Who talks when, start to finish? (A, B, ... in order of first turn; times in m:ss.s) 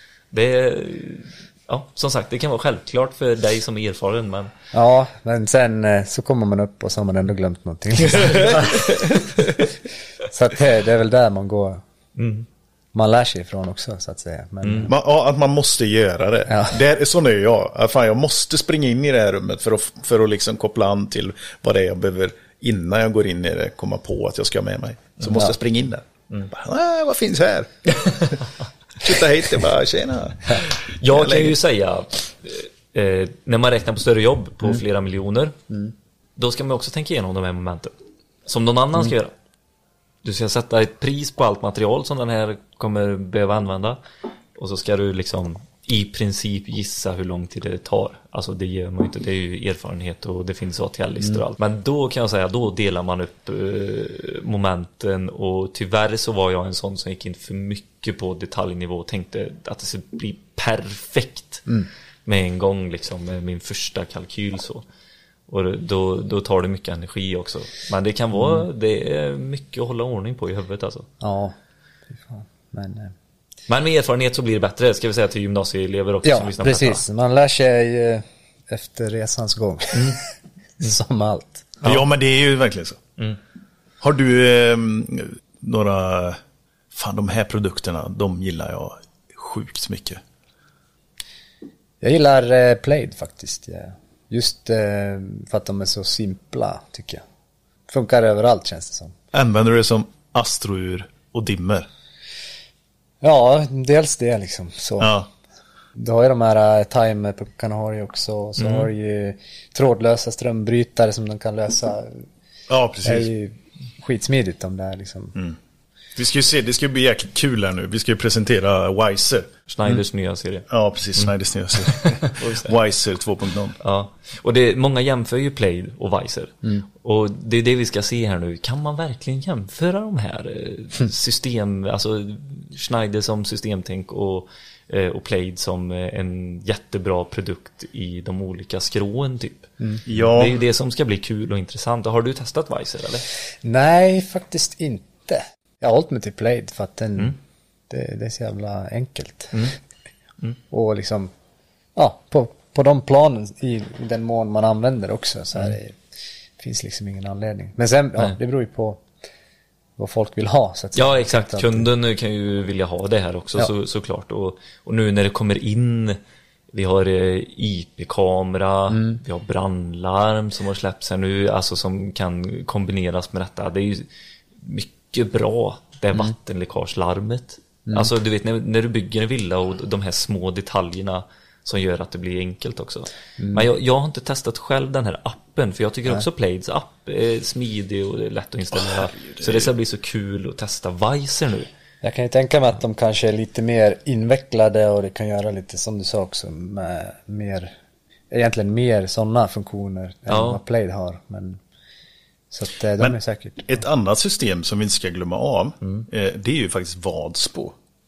0:00.3-0:04.5 A
0:04.7-0:09.2 B
0:08.3-0:09.0 A
0:10.3-0:11.8 B
0:12.2-0:12.5 A
0:12.9-0:14.9 B
0:14.6-0:14.9 A
0:14.9-0:28.4 C
0:16.5-0:16.8 B
0:25.3-0:25.6 B
0:29.0-0:31.6 C
0:30.9-0:35.6 A
0:36.4-0:37.9 A
0:38.5-0:39.3 A
0:40.2-0:44.0 A
0:44.6-1:01.7 A
1:02.2-1:04.8 A
1:05.5-1:11.1 A
1:08.4-1:08.6 B
1:11.2-1:11.6 B
1:12.1-1:13.1 B
1:13.7-1:17.0 A
1:16.2-1:20.2 B
1:19.9-1:20.2 A
1:20.8-1:21.8 B
1:21.8-1:23.0 C
1:24.0-1:26.4 C
1:26.9-1:30.2 C
1:32.0-1:37.2 B
1:37.9-1:39.2 B
1:39.3-1:41.9 C
1:43.2-1:45.1 B
1:45.0-1:45.3 C
1:45.9-1:52.2 B
1:52.7-1:53.3 C
1:53.0-1:55.4 B
1:56.2-1:59.5 C
1:59.7-2:00.7 A
2:00.7-2:03.8 C
2:01.9-2:02.7 A
2:03.8-2:23.3 A
2:20.1-2:20.6 C
2:23.6-2:27.4 B
2:27.9-2:29.7 B
2:30.7-2:31.3 B
2:32.0-2:36.0 B
2:36.6-2:39.0 B
2:40.0-2:41.9 B
2:41.0-2:46.2 A
2:46.7-2:54.1 A
2:48.9-2:49.2 B
2:54.6-3:11.7 A
3:03.4-3:03.6 B
3:08.9-3:09.7 C
3:12.0-3:17.7 B
3:18.3-3:21.6 B
3:20.3-3:20.6 A
3:22.5-3:23.7 B
3:23.0-3:27.8 C
3:25.8-3:26.1 A